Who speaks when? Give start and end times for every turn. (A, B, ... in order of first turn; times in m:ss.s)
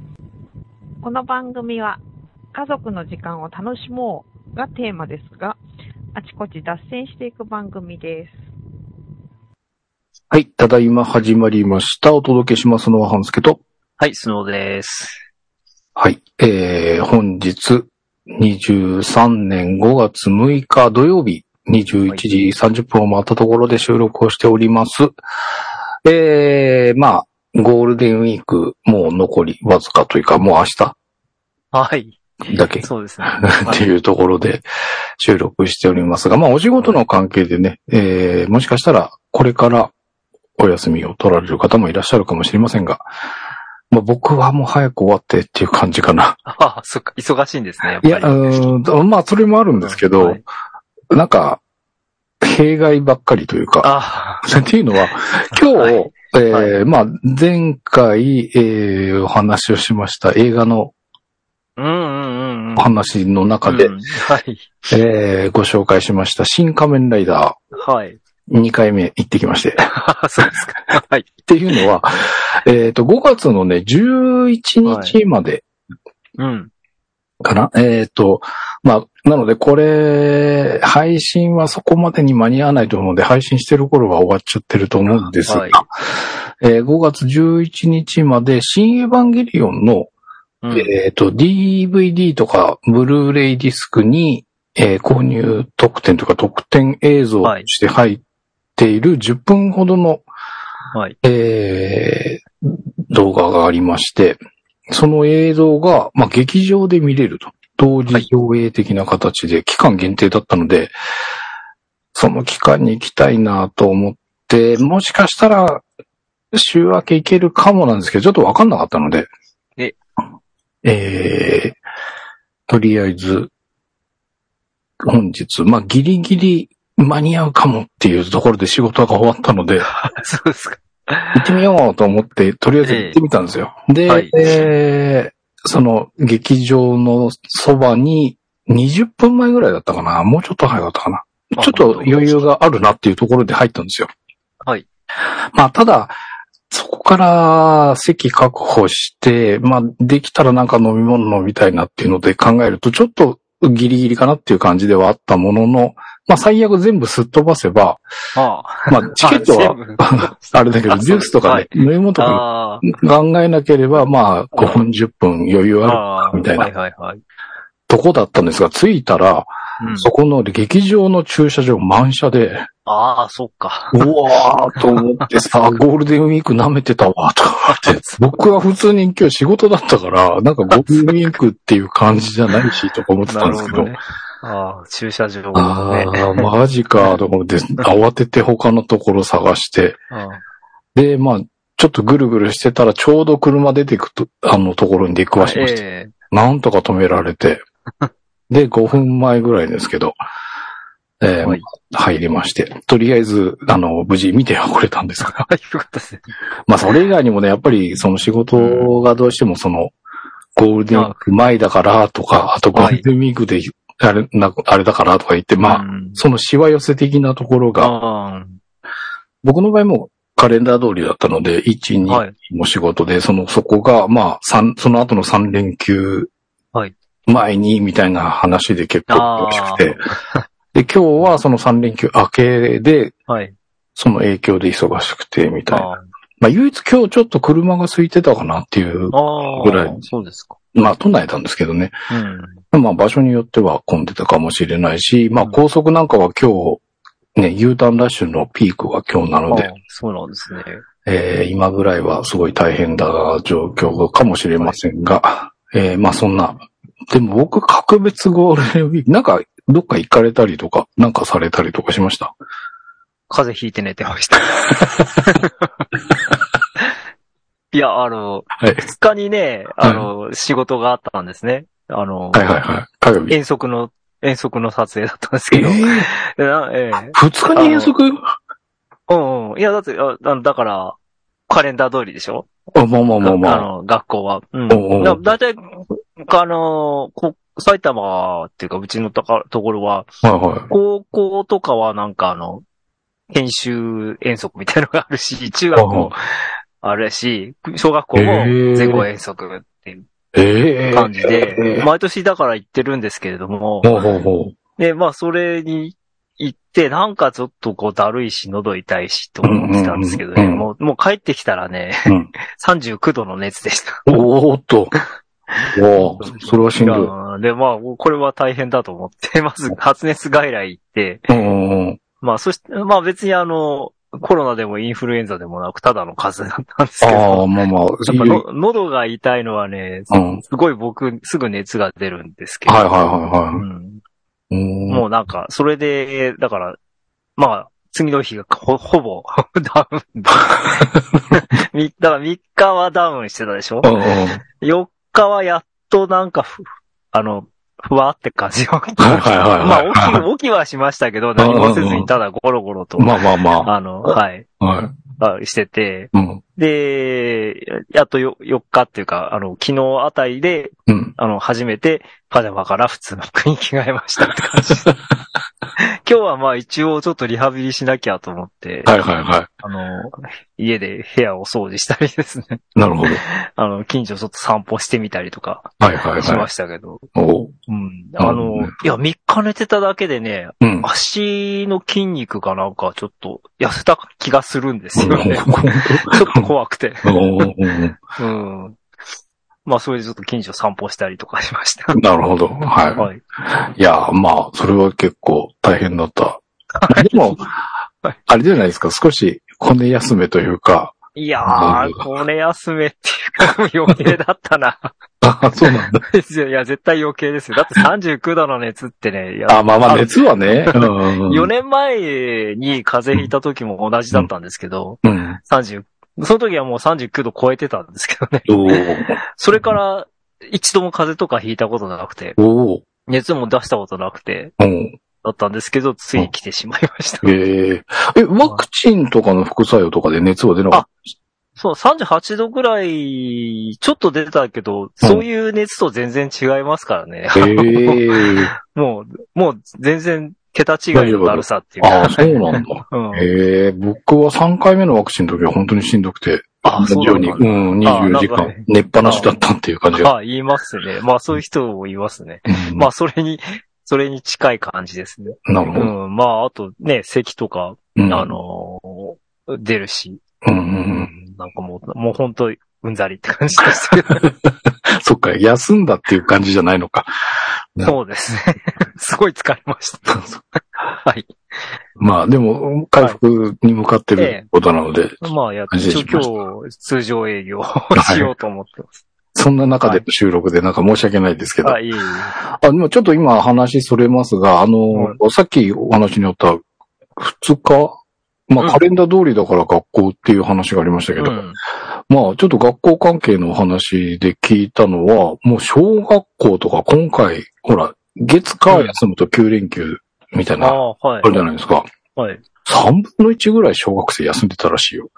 0:01.0-0:02.0 A
0:02.5-0:05.6 A
0:06.1-0:08.4 A
0:10.3-0:13.6 B
0:14.0-0:15.2 C
0:16.0-0:25.1 B
0:26.0-0:31.0 B
0:31.7-0:32.2 C
0:32.5-0:34.6 B
0:32.8-0:33.9 C
0:35.2-0:39.9 B
0:40.6-0:43.0 B
0:43.9-0:46.4 B
0:46.4-0:48.6 C
0:48.0-0:50.4 B
0:49.8-0:50.4 C
0:51.1-0:51.6 B
0:52.4-0:53.9 B
0:53.8-0:54.4 C
0:54.4-1:00.9 B
0:55.5-0:56.8 C
1:01.8-1:02.9 C
1:02.8-1:03.9 B
1:03.6-1:04.7 C
1:04.9-1:07.6 B
1:07.8-1:08.2 C
1:08.5-1:09.9 B
1:09.9-1:11.8 C
1:11.5-1:15.6 B
1:14.8-1:15.2 C
1:16.4-1:16.7 C
1:17.4-1:25.9 B
1:25.4-1:25.8 C
1:26.6-1:30.1 B
1:30.6-1:30.9 C
1:30.7-1:38.2 B
1:38.8-1:40.2 B
1:41.2-1:50.9 B
1:52.1-1:55.8 B
1:56.5-1:59.3 B
2:00.8-2:01.8 B
2:02.7-2:03.5 B
2:05.0-2:09.9 B
2:09.8-2:11.6 C
2:11.3-2:24.1 B
2:12.8-2:13.2 C
2:14.1-2:14.7 C
2:21.6-2:22.4 C
2:25.5-2:26.1 B
2:26.7-2:38.0 B
2:38.3-2:42.9 C
2:38.9-2:46.7 B
2:44.5-2:44.8 C
2:45.8-2:47.2 C
2:47.9-2:52.6 B
2:49.8-2:50.1 C
2:52.8-2:54.0 C
2:53.9-3:04.0 B
2:54.8-2:55.2 C
2:57.7-2:58.2 C
3:00.7-3:01.3 C
3:03.3-3:06.5 C
3:05.5-3:10.0 B
3:10.1-3:10.4 C
3:10.9-3:17.6 B
3:15.4-3:16.1 C
3:18.5-3:20.2 B
3:21.2-3:25.4 B
3:25.2-3:26.3 C
3:26.7-3:29.9 B
3:28.6-3:28.9 C
3:30.6-3:37.9 B
3:30.9-3:31.2 C
3:32.7-3:33.0 C
3:35.6-3:36.2 C
3:37.8-3:38.6 C
3:39.4-3:46.3 B
3:42.1-3:42.3 C
3:47.3-3:50.0 B
3:49.1-3:50.4 C
3:50.7-3:53.1 B
3:53.3-3:53.5 C
3:54.0-3:55.9 B
3:55.7-3:56.0 C
3:56.4-4:00.0 B
3:59.1-4:00.6 C
4:00.7-4:01.9 B
4:02.1-4:02.6 C
4:02.7-4:06.8 B
4:07.4-4:09.7 B
4:09.5-4:10.8 C
4:11.0-4:16.6 B
4:17.1-4:22.3 B
4:23.3-4:25.7 C
4:27.7-4:32.5 C
4:28.6-4:28.9 B
4:29.8-4:30.1 B
4:32.3-4:33.3 B
4:33.3-4:37.9 C
4:35.5-4:36.1 B
4:37.1-4:38.2 B
4:39.1-4:41.0 C
4:41.5-4:42.5 C
4:42.7-4:43.7 B
4:43.2-4:50.1 C
4:44.7-4:45.2 B
4:50.2-4:50.7 B
4:50.7-4:52.6 C
4:53.3-4:56.2 C
4:55.7-4:56.1 B
4:56.8-5:00.0 C
4:58.2-4:59.0 B
5:00.3-5:01.9 B
5:00.9-5:04.0 C
5:03.8-5:04.6 B
5:04.8-5:14.0 C
5:09.4-5:10.7 B
5:14.1-5:14.9 B
5:15.7-5:17.1 B
5:16.0-5:21.3 C
5:21.3-5:22.0 B
5:22.2-5:27.5 C
5:27.0-5:28.4 B
5:28.0-5:32.9 C
5:30.1-5:30.4 B
5:32.6-5:33.6 B
5:33.6-5:34.0 C
5:34.5-5:35.0 B
5:34.9-5:36.8 C
5:37.4-5:43.9 C
5:40.6-5:41.4 B
5:43.8-5:44.4 B
5:44.6-5:54.5 C
5:49.0-5:50.2 B
5:51.4-5:52.1 B
5:53.0-5:53.7 B
5:54.6-5:54.9 B
5:55.2-6:04.9 C
5:56.1-5:56.4 B
6:00.9-6:01.1 B
6:04.7-6:04.9 B
6:05.8-6:08.9 C
6:08.8-6:09.5 B
6:09.6-6:17.1 C
6:12.8-6:13.2 B
6:15.8-6:16.5 B
6:17.1-6:17.5 B
6:17.7-6:27.5 C
6:18.2-6:18.7 B
6:20.6-6:20.9 B
6:25.0-6:26.5 B
6:27.0-6:28.0 B
6:28.2-6:28.8 C
6:29.6-6:32.0 C
6:31.9-6:37.4 B
6:33.0-6:33.2 C
6:36.7-6:37.4 C
6:38.3-6:40.9 B
6:41.2-6:44.9 C
6:41.4-6:42.0 B
6:45.2-6:46.0 B
6:45.6-6:58.8 C
6:49.5-6:51.5 B
6:55.0-6:55.4 B
6:58.5-6:59.2 B
6:59.4-7:02.4 C
7:02.4-7:02.8 B
7:03.1-7:04.5 C
7:04.6-7:04.9 B
7:05.2-7:07.3 C
7:07.2-7:10.9 B
7:11.6-7:23.3 C
7:17.3-7:18.5 B
7:20.9-7:30.1 B
7:26.6-7:29.3 C
7:30.0-7:40.2 C
7:32.5-7:32.9 B
7:35.4-7:35.9 B
7:38.0-7:38.3 B
7:40.4-7:41.1 B
7:40.9-7:44.3 C
7:43.7-7:47.1 B
7:47.8-7:50.2 C
7:50.1-7:50.4 B
7:50.9-7:51.3 C
7:52.0-7:56.3 B
7:54.2-7:54.5 C
7:55.2-7:59.0 C
7:57.9-7:58.3 B
7:59.3-8:01.8 B
7:59.7-8:00.0 C
8:01.6-8:02.3 C
8:02.5-8:06.6 B
8:04.9-8:05.2 C
8:07.2-8:08.0 B
8:08.5-8:11.4 B
8:11.2-8:11.6 C
8:12.1-8:21.9 B
8:18.7-8:19.0 C
8:20.6-8:21.3 C
8:22.2-8:22.4 C
8:22.6-8:25.1 B